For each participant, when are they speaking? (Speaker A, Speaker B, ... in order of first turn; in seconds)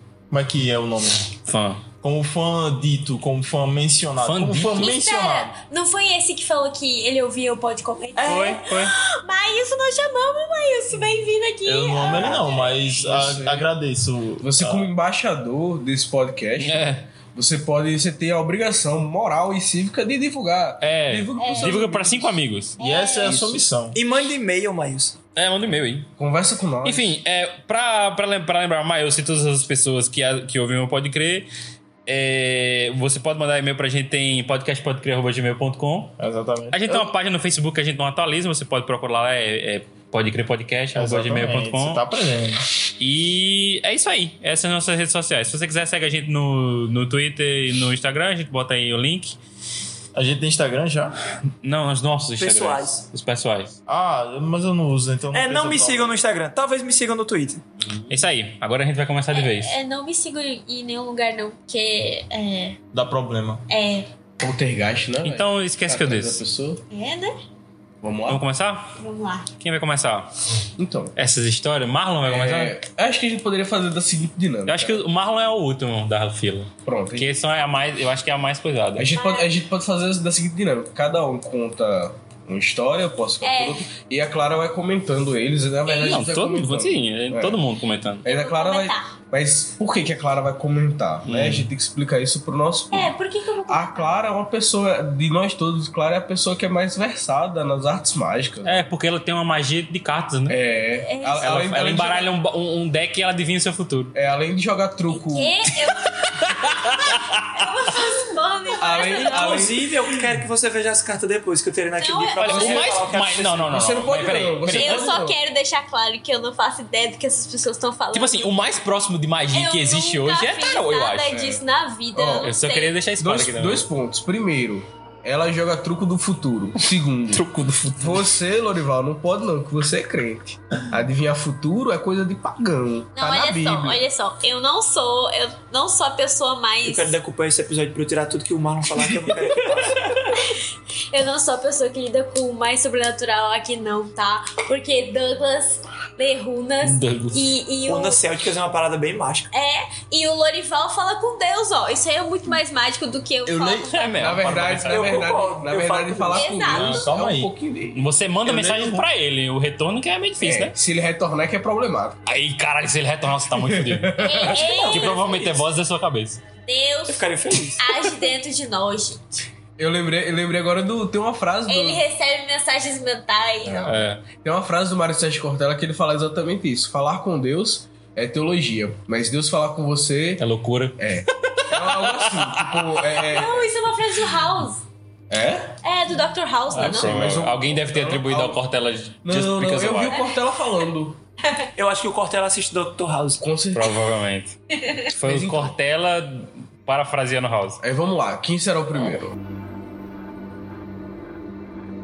Speaker A: 0.3-1.3, 2.0-5.5, 11.6-14.9, 22.8-24.0, 36.2-36.8, 40.9-42.6, 50.1-51.2, 53.9-56.1, 62.9-63.6, 153.4-153.9, 156.7-157.5, 158.4-159.0
Speaker B: 1.4-1.8, 4.2-4.9, 8.2-8.9, 16.6-17.1, 20.8-22.7, 23.2-23.6, 25.4-26.1, 26.8-31.5, 32.0-36.1, 36.7-42.0, 43.0-49.4, 51.6-53.8, 58.1-59.7, 65.2-66.4, 68.3-68.9, 69.6-70.3, 71.2-72.8, 74.7-79.1, 85.8-88.2, 91.2-91.7, 98.6-100.6, 101.4-104.1, 106.3-107.6, 112.4-115.2, 118.1-121.3, 122.4-123.9, 126.8-128.3, 146.8-147.5, 153.9-155.3, 157.9-160.7, 162.2-166.4, 173.8-174.2, 180.4-183.0, 186.7-190.3, 193.7-197.8
Speaker C: 4.7-12.7, 21.4-21.9, 22.8-23.4, 59.3-62.8, 63.7-64.0, 66.9-67.3, 69.0-69.5, 79.1-79.5, 83.4-83.8, 88.3-89.1, 92.9-94.2, 101.0-101.6, 105.1-109.7, 112.0-112.8, 114.7-118.6, 119.5-122.9, 133.2-137.2, 140.3-140.6, 141.1-148.2, 149.5-154.4, 156.3-157.0, 164.2-165.6, 166.7-167.2, 167.8-169.4, 171.7-173.9, 183.3-184.8, 185.8-187.3, 189.9-190.3, 194.8-195.1
Speaker D: 8.2-8.6, 23.9-25.1, 52.4-53.0, 55.3-57.6, 109.1-113.7, 136.8-140.1, 147.9-149.5, 154.9-156.5, 164.3-165.6, 167.1-167.8, 191.8-193.4
Speaker E: 12.1-13.7, 14.4-16.8, 17.3-22.3, 26.2-27.1, 64.4-66.8, 68.0-68.4, 70.8-71.1, 72.2-75.0, 76.8-77.3, 79.0-87.5, 88.2-93.1, 93.7-98.8, 100.5-102.3, 104.1-105.5, 108.8-109.8, 112.5-112.9, 113.7-115.4, 121.3-121.6, 122.1-122.5, 123.2-127.5, 128.0-134.0, 154.2-158.0, 160.4-162.2, 163.5-164.6, 169.8-172.0, 173.6-180.4, 181.0-183.7, 185.3-185.7, 186.7-188.6, 189.2-191.2, 193.4-193.9, 195.2-195.7, 197.8-199.3